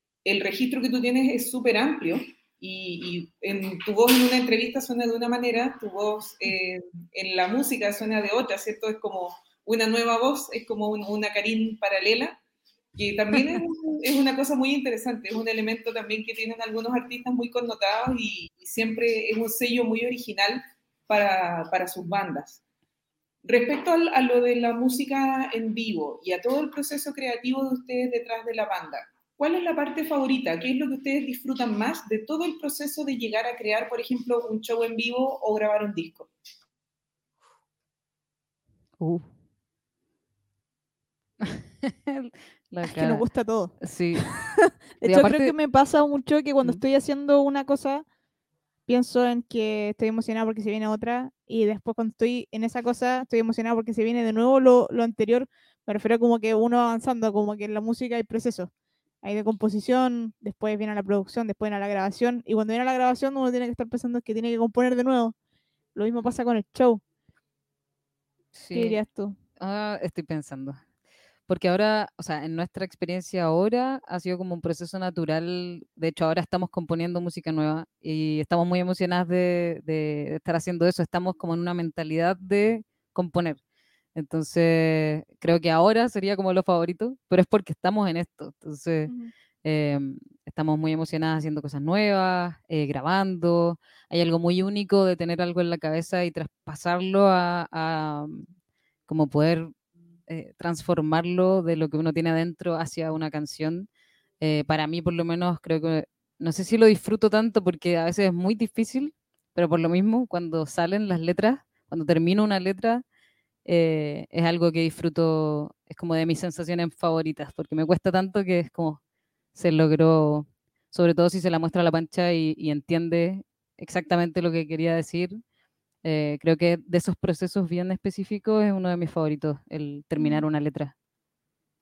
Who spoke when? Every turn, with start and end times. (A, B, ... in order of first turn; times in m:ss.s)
0:00.2-0:12.4 A
0:13.0-0:22.6 A
0:23.4-0:36.3 A
0:41.4-0:43.2 B
0:42.8-0:48.0 C
0:43.8-0:44.2 B
0:45.0-0:45.5 B
0:48.9-0:58.7 C
0:59.2-1:05.4 C
1:06.0-1:07.0 C
1:08.6-1:09.0 B
1:08.7-1:09.4 C
1:09.6-1:10.8 B
1:11.5-1:23.6 B
1:24.2-1:29.1 B
1:29.6-1:38.5 B
1:39.1-1:39.7 B
1:40.3-1:43.9 B
1:44.4-1:53.0 B
1:53.7-1:59.0 B
1:59.5-2:05.4 B
2:06.0-2:10.9 B
2:10.2-2:10.4 C